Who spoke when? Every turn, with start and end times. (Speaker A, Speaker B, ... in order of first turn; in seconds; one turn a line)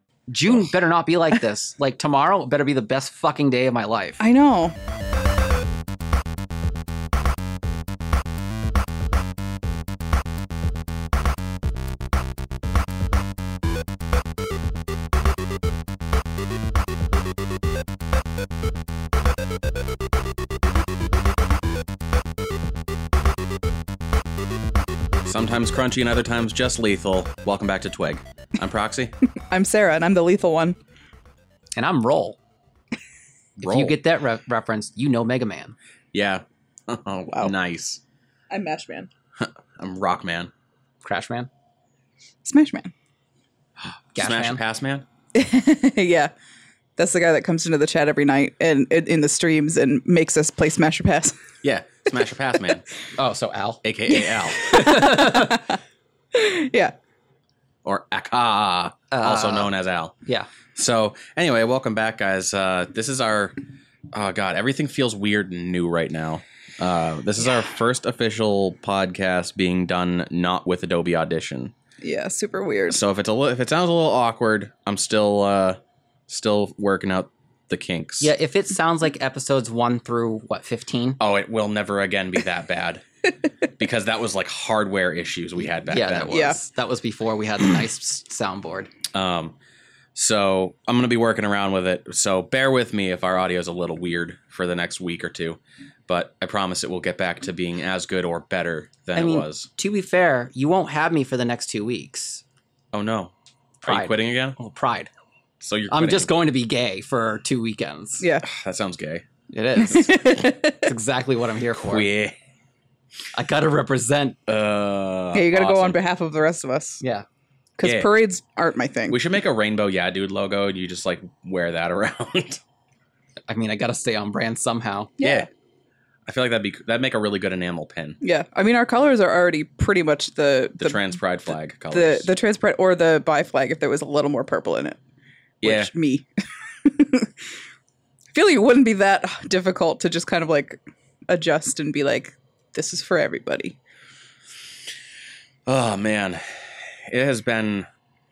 Speaker A: 0.3-4.2
Speaker B: 4.2-4.7
Speaker C: 25.2-29.1
Speaker B: 29.5-30.8
Speaker A: 31.7-32.4
Speaker C: 33.6-34.0
Speaker A: 33.6-35.7
Speaker C: 36.1-38.0
Speaker B: 38.5-39.1
Speaker C: 39.4-40.5
Speaker A: 41.0-41.5
Speaker B: 42.4-42.9
Speaker C: 43.8-45.0
Speaker A: 44.1-44.6
Speaker B: 45.3-46.3
Speaker B: 47.0-51.4
Speaker C: 51.6-52.8
Speaker A: 53.1-53.8
Speaker C: 53.8-54.6
Speaker B: 54.2-55.8
Speaker A: 54.6-55.6
Speaker B: 56.3-56.9
Speaker C: 57.8-60.1
Speaker A: 59.1-59.7
Speaker C: 60.7-63.5
Speaker C: 64.1-71.7
Speaker B: 72.0-73.0
Speaker C: 72.9-78.3
Speaker A: 78.2-81.2
Speaker C: 81.2-83.0
Speaker C: 83.8-86.5
Speaker A: 85.8-88.9
Speaker B: 86.3-86.6
Speaker C: 89.1-89.5
Speaker C: 90.1-99.7
Speaker A: 99.1-102.4
Speaker C: 102.9-103.3
Speaker A: 103.8-105.1
Speaker C: 103.8-104.6
Speaker C: 105.6-106.3
Speaker A: 105.9-108.2
Speaker B: 108.2-108.4
Speaker C: 108.4-109.2
Speaker A: 109.5-112.1
Speaker B: 109.8-110.9
Speaker C: 111.7-112.3
Speaker A: 113.3-114.4
Speaker C: 114.5-116.0
Speaker B: 115.3-117.0
Speaker B: 117.8-119.2
Speaker C: 117.8-118.1
Speaker C: 119.1-122.6
Speaker A: 123.5-125.1
Speaker B: 125.2-125.5
Speaker C: 125.2-125.5
Speaker C: 126.3-128.2
Speaker B: 128.2-131.2
Speaker C: 130.8-132.3
Speaker B: 131.9-135.0
Speaker C: 135.6-135.9
Speaker B: 135.6-136.3
Speaker B: 136.8-137.3
Speaker B: 138.3-143.8
Speaker C: 145.7-147.9